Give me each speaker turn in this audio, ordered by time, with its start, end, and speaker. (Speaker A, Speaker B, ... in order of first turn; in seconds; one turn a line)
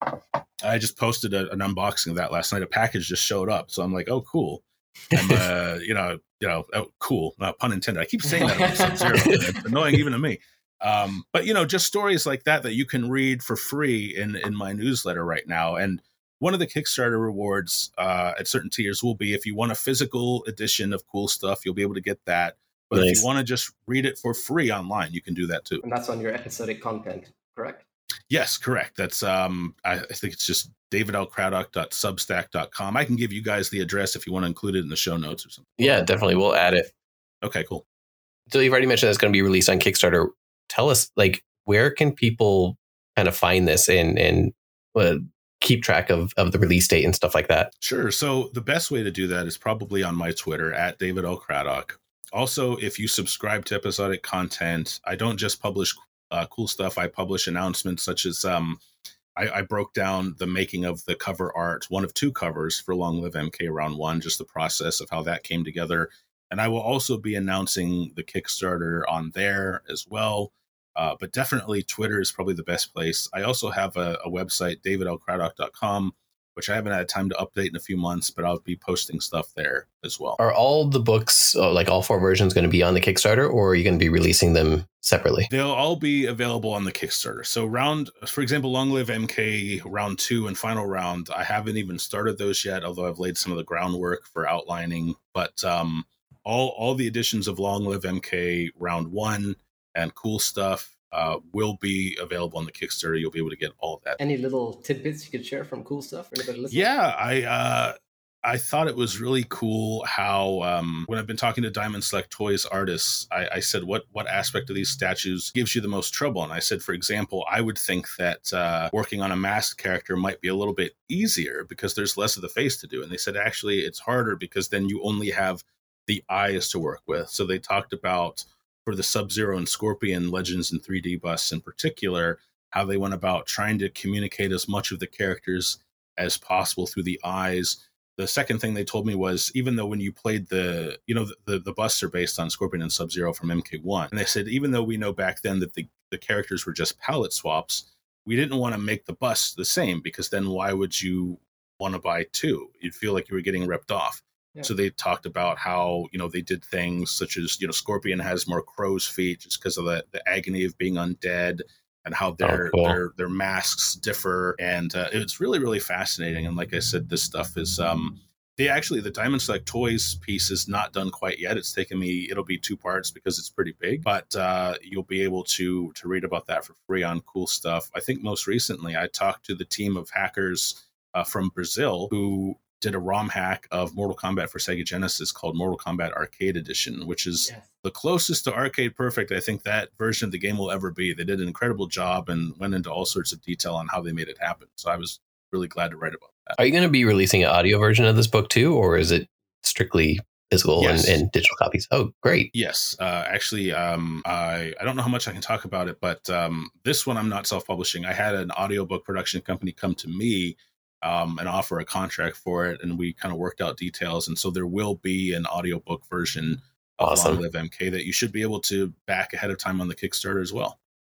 Speaker A: 0.6-25.8
Speaker B: 5.2-5.4
Speaker C: 8.4-9.1
Speaker B: 9.1-10.0
Speaker B: 22.9-23.2
Speaker C: 25.8-27.8
Speaker A: 28.3-36.0
Speaker B: 35.8-36.9
Speaker A: 37.4-37.8
Speaker B: 38.5-47.7
Speaker A: 47.8-58.8
Speaker A: 59.4-80.4
Speaker B: 80.4-85.5
Speaker A: 85.5-104.2
Speaker C: 104.2-106.8
Speaker A: 106.7-196.6
Speaker B: 162.4-163.0
Speaker B: 196.6-202.5
Speaker A: 200.8-201.2
Speaker A: 202.5-220.8
Speaker B: 217.0-217.4